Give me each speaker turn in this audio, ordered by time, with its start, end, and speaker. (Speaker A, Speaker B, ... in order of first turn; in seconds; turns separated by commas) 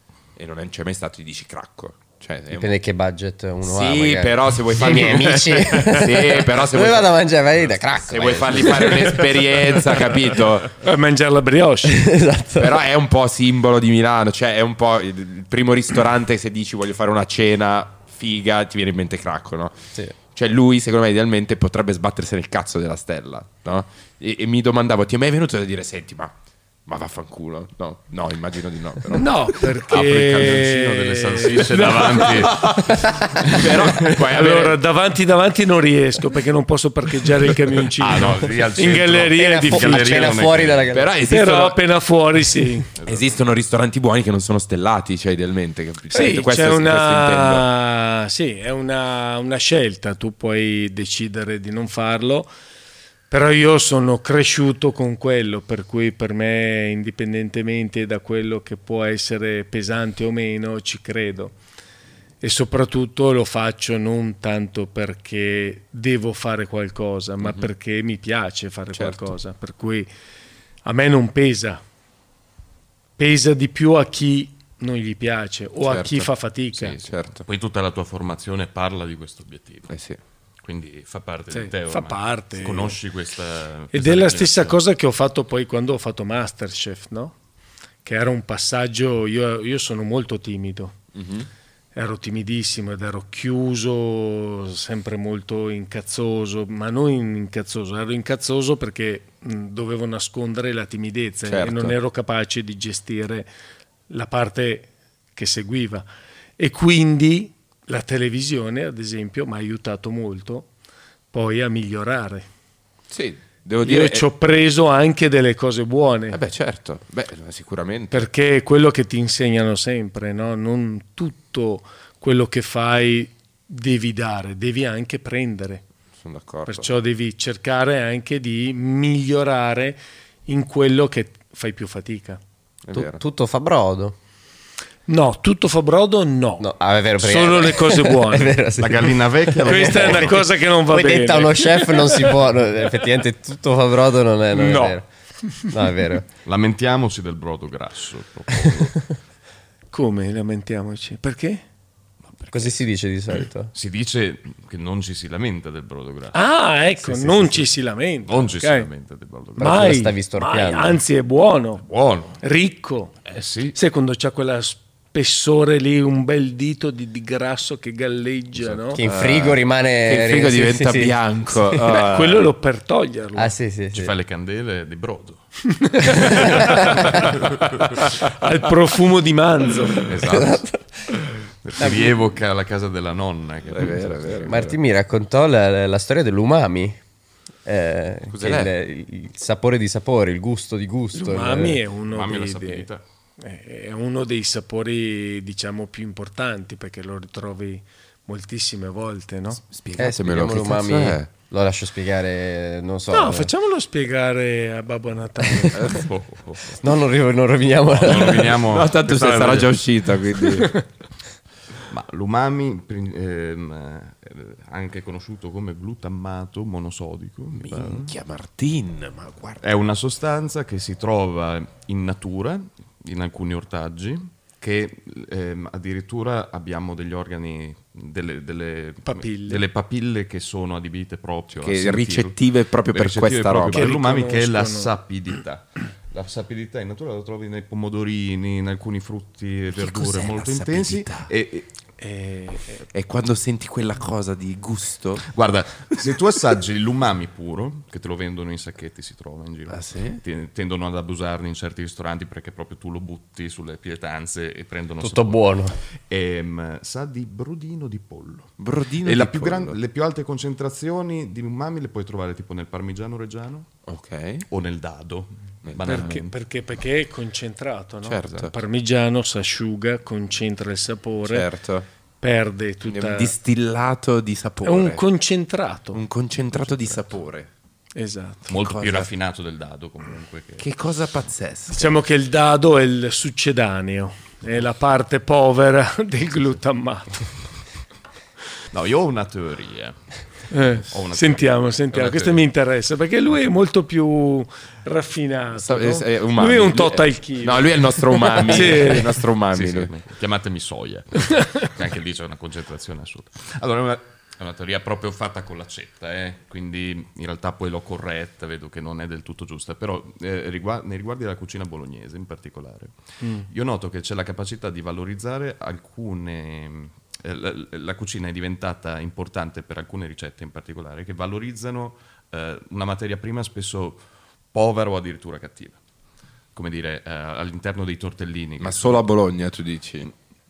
Speaker A: 0.3-2.7, Speaker B: 2.5-9.3, Speaker A: 3.6-7.1, Speaker A: 8.0-10.8, Speaker C: 10.8-12.0, Speaker B: 11.8-12.8, Speaker A: 12.6-26.3, Speaker A: 26.9-29.5, Speaker C: 29.1-40.4, Speaker D: 29.9-34.2, Speaker A: 32.9-34.8, Speaker D: 38.0-40.9, Speaker B: 39.3-41.1, Speaker A: 40.9-41.8, Speaker C: 41.2-42.9, Speaker D: 43.0-43.3, Speaker A: 43.0-47.6, Speaker C: 46.1-52.5, Speaker C: 53.3-61.5, Speaker C: 62.4-70.1, Speaker A: 67.4-67.7, Speaker A: 68.9-69.3, Speaker C: 70.8-71.8, Speaker C: 73.2-77.1, Speaker A: 75.8-77.5, Speaker D: 77.4-79.9, Speaker A: 79.9-80.2, Speaker D: 80.6-84.8, Speaker C: 81.5-83.0, Speaker C: 83.9-87.3, Speaker C: 88.0-91.0, Speaker A: 91.1-91.5, Speaker C: 91.9-103.5, Speaker A: 101.5-101.9, Speaker C: 104.1-106.0, Speaker C: 106.6-110.7, Speaker C: 111.3-112.5, Speaker A: 113.1-114.2, Speaker C: 113.8-116.4, Speaker A: 116.3-118.3, Speaker C: 118.1-125.8, Speaker A: 126.2-126.9, Speaker C: 126.7-132.4, Speaker A: 132.8-133.2, Speaker B: 132.9-134.2, Speaker C: 135.1-138.6, Speaker B: 136.6-145.1, Speaker D: 138.8-140.4, Speaker C: 139.6-142.4, Speaker C: 144.5-145.0, Speaker B: 145.6-146.3, Speaker D: 146.4-149.1, Speaker C: 149.9-151.6, Speaker D: 152.3-152.7, Speaker B: 152.5-153.7, Speaker D: 153.7-156.4, Speaker C: 156.3-158.9, Speaker B: 157.0-157.5, Speaker D: 158.3-160.0, Speaker C: 159.6-161.8, Speaker B: 159.6-161.0, Speaker D: 161.8-162.4, Speaker C: 162.4-163.2, Speaker D: 163.2-163.8, Speaker C: 163.7-169.0, Speaker B: 168.9-172.0, Speaker A: 169.0-172.4, Speaker C: 171.8-173.5, Speaker B: 173.3-174.1, Speaker D: 173.9-175.4, Speaker C: 175.7-180.1, Speaker D: 176.0-177.6, Speaker B: 176.1-177.2, Speaker D: 180.1-180.6, Speaker B: 180.2-181.1, Speaker D: 181.6-184.5, Speaker B: 181.8-182.1, Speaker A: 183.7-184.8, Speaker B: 184.4-187.0, Speaker B: 187.6-191.8, Speaker A: 188.3-188.7, Speaker C: 191.1-192.9, Speaker D: 192.1-193.0, Speaker C: 193.4-199.6, Speaker A: 199.6-201.3, Speaker B: 200.0-203.5, Speaker C: 203.1-206.0, Speaker D: 205.8-206.8, Speaker B: 206.8-208.6, Speaker D: 207.9-209.8, Speaker A: 208.6-210.8, Speaker D: 211.9-218.1, Speaker A: 217.5-219.6, Speaker D: 219.6-241.7, Speaker C: 229.0-229.6, Speaker A: 231.6-233.9, Speaker C: 233.7-234.9, Speaker A: 239.7-241.3, Speaker C: 242.0-242.8, Speaker A: 242.9-245.2, Speaker D: 245.2-255.4, Speaker A: 249.7-250.2, Speaker B: 255.0-255.8, Speaker D: 256.1-263.7, Speaker A: 258.6-259.8, Speaker A: 263.9-264.4, Speaker D: 264.5-266.3, Speaker A: 265.6-266.2, Speaker C: 265.8-271.5, Speaker A: 268.0-268.5, Speaker A: 271.3-271.9, Speaker C: 272.2-273.3, Speaker A: 272.9-275.0, Speaker C: 274.6-276.0, Speaker A: 275.9-277.5, Speaker C: 277.9-278.5, Speaker D: 278.5-280.6, Speaker A: 278.6-279.1, Speaker A: 280.6-281.9, Speaker C: 281.7-287.3, Speaker D: 288.7-290.0, Speaker C: 290.5-299.2, Speaker D: 290.8-292.4, Speaker A: 295.6-299.9, Speaker D: 298.6-312.9, Speaker C: 313.2-313.5, Speaker D: 313.5-324.0, Speaker D: 324.5-325.8, Speaker D: 326.5-329.0, Speaker A: 328.6-330.1